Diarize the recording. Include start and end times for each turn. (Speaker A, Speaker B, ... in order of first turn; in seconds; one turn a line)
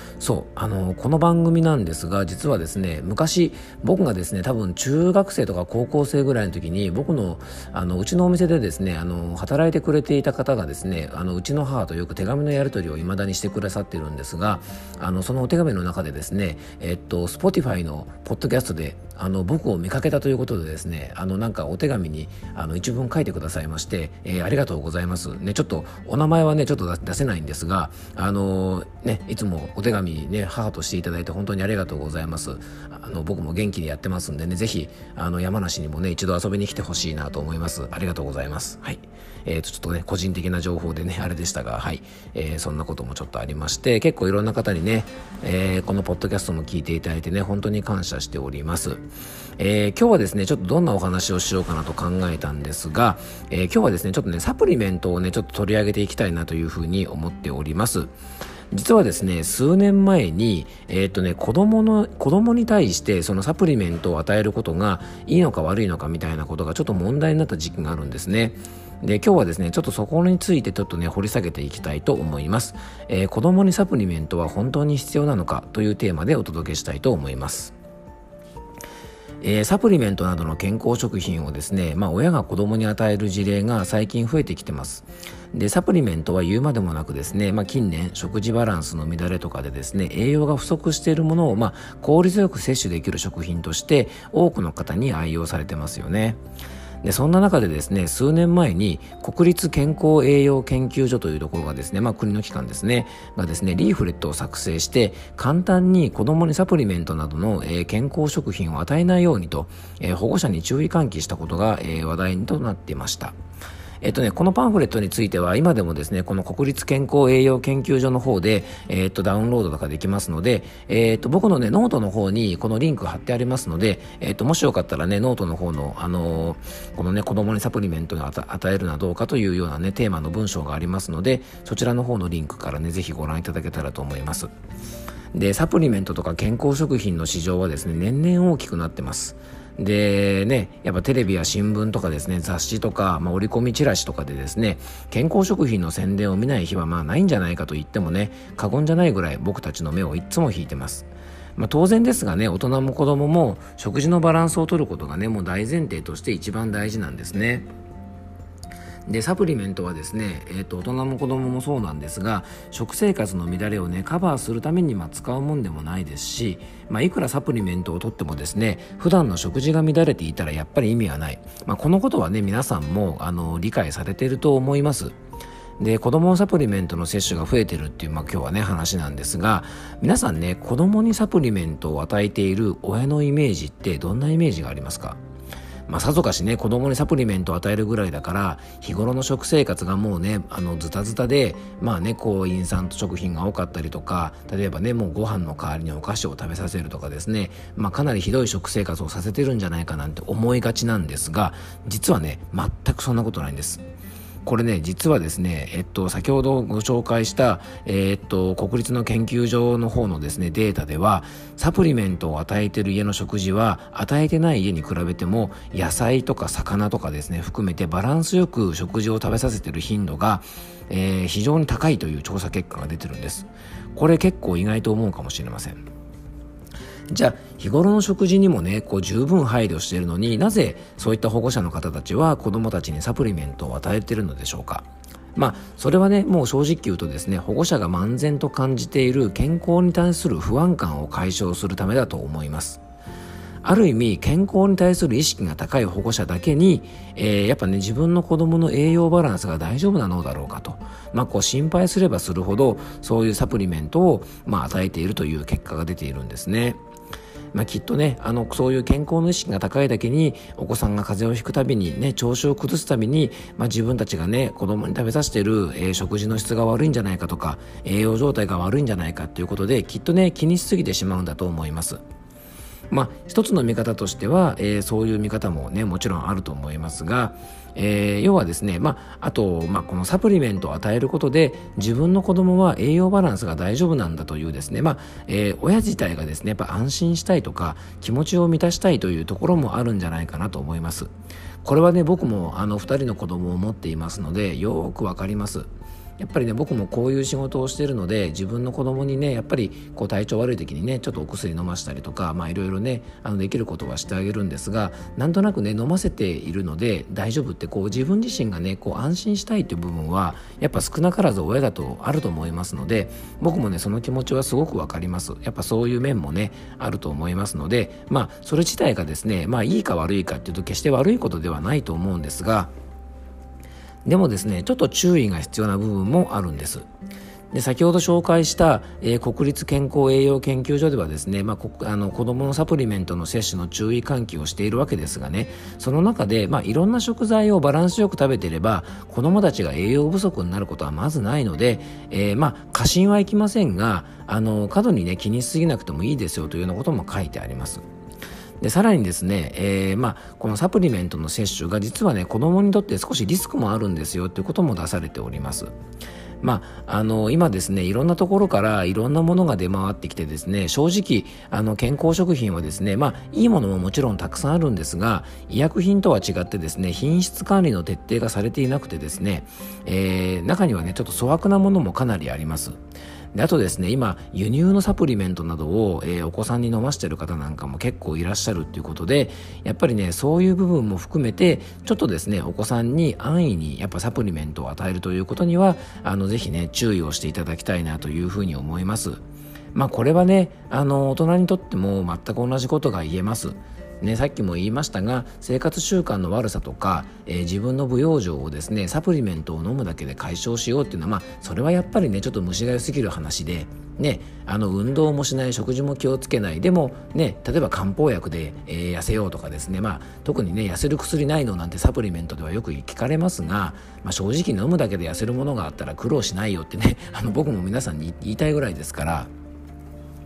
Speaker A: 0.2-49.0
Speaker A: 49.6-58.1
Speaker A: 58.7-77.7
Speaker A: 79.4-96.4
Speaker A: 97.0-113.3
Speaker A: 114.0-134.5
Speaker A: 135.3-157.7
Speaker A: 159.1-175.1
Speaker A: 175.8-185.2
Speaker A: 185.9-203.8
Speaker A: 204.4-225.8
Speaker A: 227.1-234.8
Speaker A: 235.3-242.8
Speaker A: 243.6-256.8
Speaker A: 257.5-272.0
Speaker A: 272.9-291.1
Speaker A: 291.6-295.7
Speaker A: 296.2-322.7
Speaker A: 324.0-326.9
Speaker A: 327.5-347.8
Speaker A: 348.6-355.7
Speaker A: 356.4-372.8
Speaker A: 373.3-389.2
Speaker A: 389.7-419.3